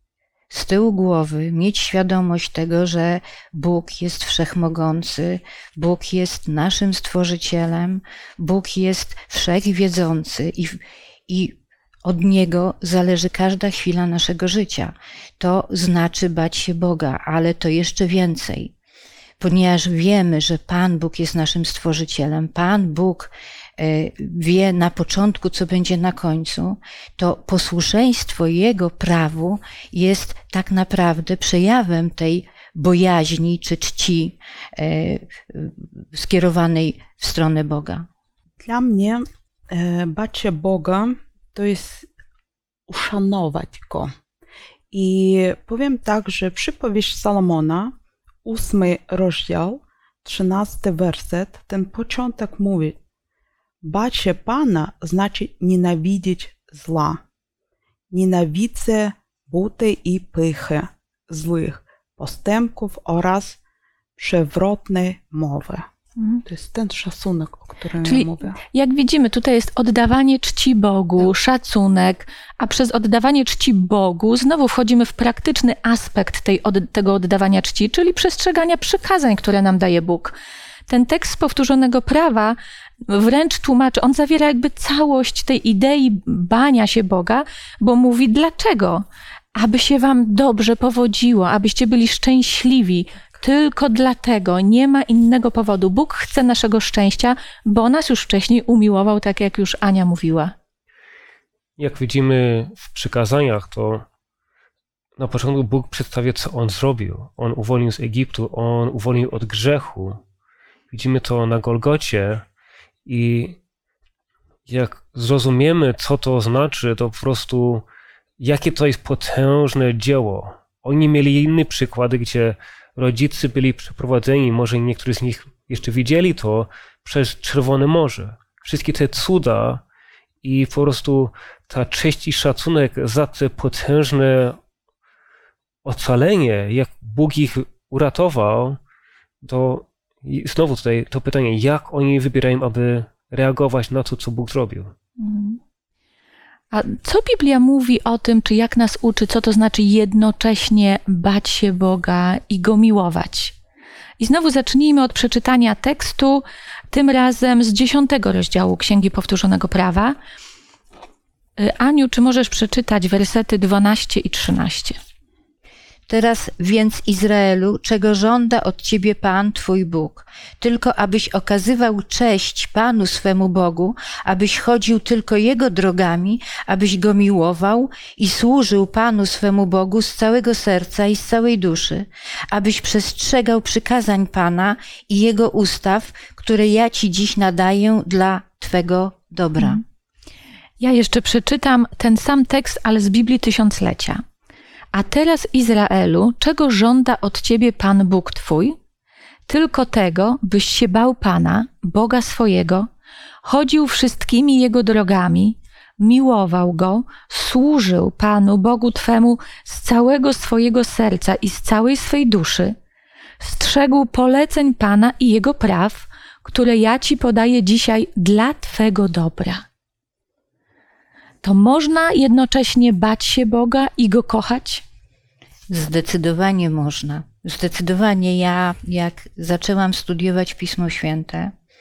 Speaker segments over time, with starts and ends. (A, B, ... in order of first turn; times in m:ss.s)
0:00.5-0:18.7 A
0:19.4-0:38.1 A
0:38.6-0:42.1 B
0:42.9-0:44.1 B
0:44.9-0:47.9 B
0:48.4-0:53.0 B
0:53.8-0:57.2 B
0:58.1-1:03.6 B
1:04.2-1:05.8 B
1:06.2-1:06.4 C
1:06.4-1:08.6 B
1:08.0-1:20.4 C
1:20.9-1:40.5 C
1:41.8-1:44.0 D
1:45.2-1:50.2 D
1:50.9-1:52.4 D
1:53.0-1:53.6 D
1:54.7-1:57.8 D
1:58.4-2:09.8 D
2:10.4-2:14.6 D
2:15.8-2:18.8 D
2:19.4-2:24.9 D
2:25.2-2:25.6 C
2:26.7-2:33.5 C
2:34.2-2:40.2 C
2:41.6-2:45.0 C
2:46.1-3:09.8 A
3:10.8-3:14.2 C
3:14.9-3:18.8 C
3:19.5-3:22.9 C
3:23.4-3:32.8 C
3:33.4-3:39.6 C
3:41.4-3:44.8 C
3:45.7-3:51.5 A